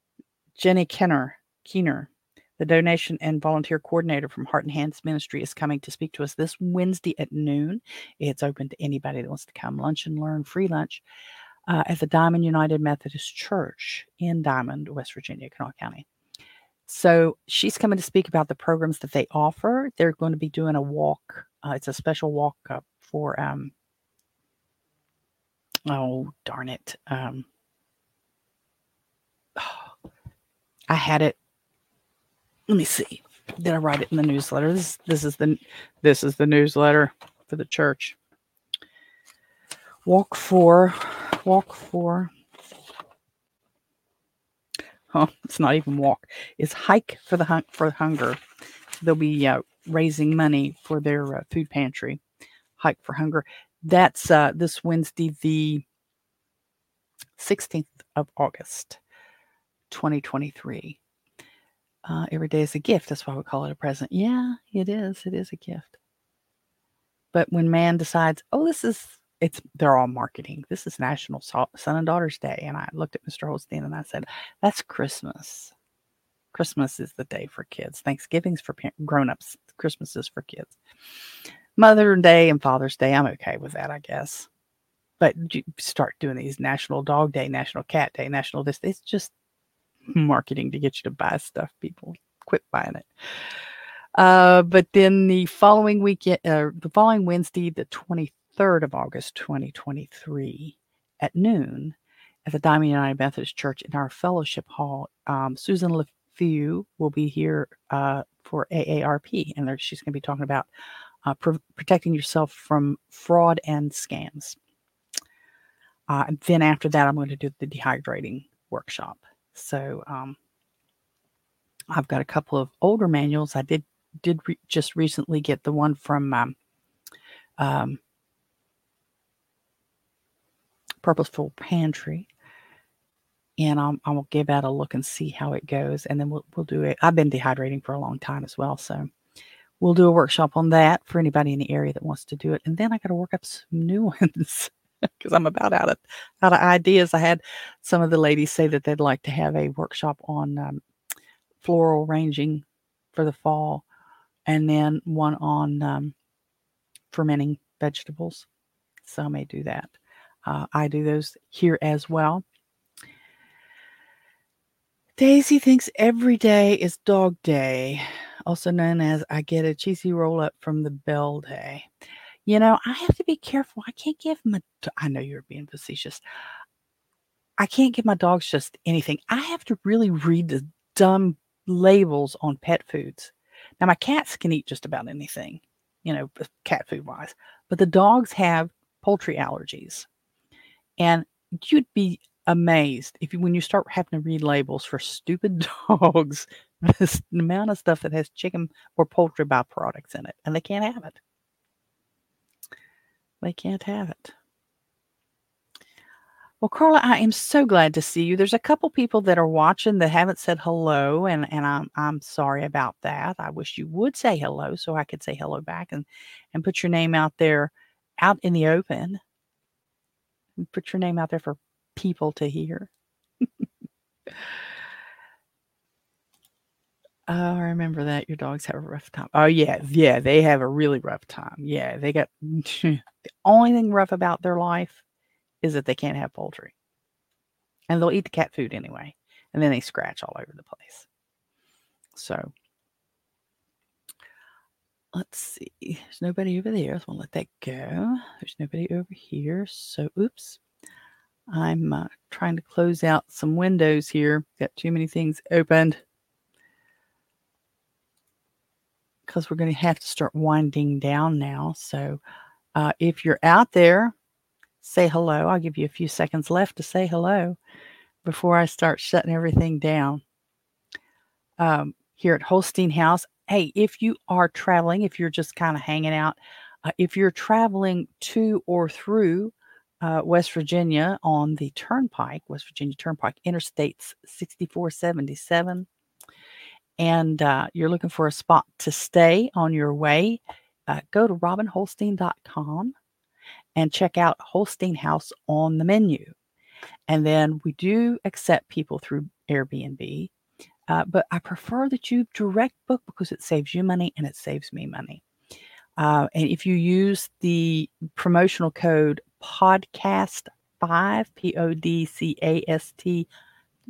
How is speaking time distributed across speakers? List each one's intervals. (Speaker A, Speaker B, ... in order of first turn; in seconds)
Speaker A: 0.6-11.0, 11.7-16.1, 16.9-23.7, 25.9-27.5, 29.6-29.9, 30.9-31.4, 32.7-38.2, 40.0-42.3, 45.1-48.4, 49.0-52.2, 52.8-55.8, 57.4-59.0, 59.9-61.0, 62.0-66.0, 67.3-75.7, 76.5-80.8, 81.8-84.5, 85.2-89.3, 90.1-93.1, 94.2-110.7, 111.2-114.6, 116.1-120.4, 121.9-126.5, 127.6-128.0, 131.0-132.3, 133.6-139.1, 139.8-150.8, 151.6-153.8, 154.5-156.1, 157.1-158.5, 159.0-159.9, 160.4-162.4, 165.2-171.9, 172.4-176.2, 177.6-190.1, 191.0-201.2, 203.4-204.3, 206.6-219.2, 220.6-222.9, 227.3-235.0, 235.6-236.7, 237.9-241.1, 242.1-242.5, 245.1-250.6, 251.5-256.0, 259.2-262.2, 262.7-264.1, 264.8-267.6, 268.2-270.2, 271.6-285.9, 287.0-292.9, 293.8-296.3, 297.1-300.3, 300.9-305.2, 306.0-313.3